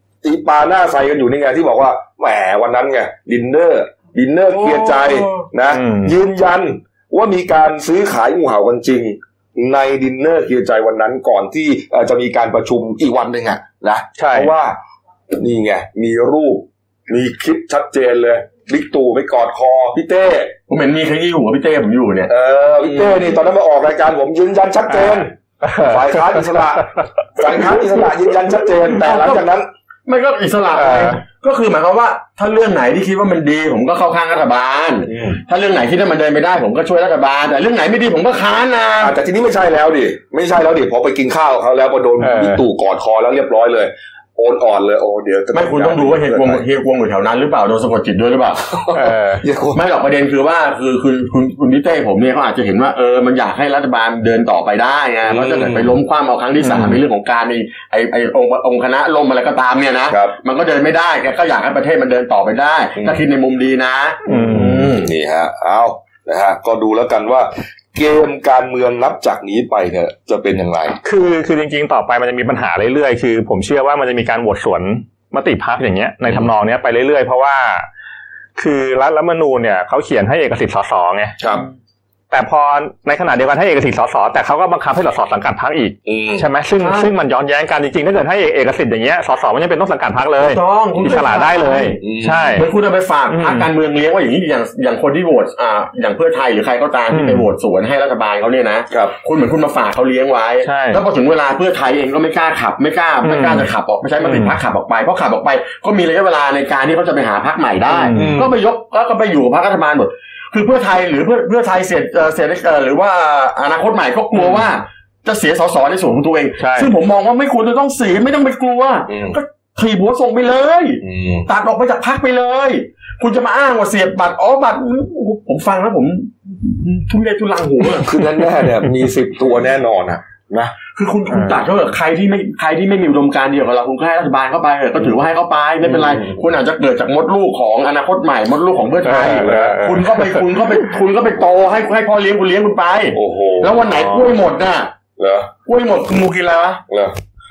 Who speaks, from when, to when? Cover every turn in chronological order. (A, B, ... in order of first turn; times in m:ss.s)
0:00.2-0:14.8 A
0:04.5-0:05.5 B
0:05.7-0:06.1 C
0:14.2-0:14.5 C
0:15.4-0:20.6 A
0:20.7-0:22.3 B
0:22.3-0:29.7 A
0:22.8-0:23.2 B
0:25.7-0:25.9 C
0:28.9-0:29.4 B
0:30.1-0:39.2 B
0:30.8-0:31.2 C
0:35.1-0:35.4 A
0:39.0-0:46.6 A
0:42.2-0:42.6 C
0:45.5-0:48.7 B
0:48.7-0:49.8 A
0:48.9-0:49.4 C
0:49.7-1:05.1 B
0:55.3-0:55.9 A
0:56.6-0:57.0 C
1:00.1-1:00.4 A
1:03.0-1:03.2 A
1:04.3-1:04.9 C
1:04.3-1:11.0 A
1:11.0-1:17.9 C
1:18.6-1:21.4 C
1:21.4-1:21.6 A
1:22.3-1:32.7 C
1:26.1-1:26.5 A
1:26.8-1:27.1 B
1:30.4-1:32.0 B
1:32.0-1:32.6 A
1:32.6-2:08.3 B
1:33.3-1:33.7 C
1:37.1-1:37.5 C
1:40.6-1:41.0 C
1:43.2-1:43.7 C
1:44.2-1:44.6 C
1:47.9-1:48.4 C
1:48.1-1:48.5 A
1:56.6-1:56.9 C
1:59.1-1:59.4 A
2:01.0-2:01.5 A
2:08.0-2:10.7 A
2:11.0-2:24.9 B
2:11.3-2:11.6 C
2:15.9-2:16.3 A
2:19.0-2:20.7 C
2:19.3-2:19.8 A
2:23.1-2:23.9 A
2:25.2-2:25.5 A
2:25.7-2:26.8 B
2:26.9-2:27.2 A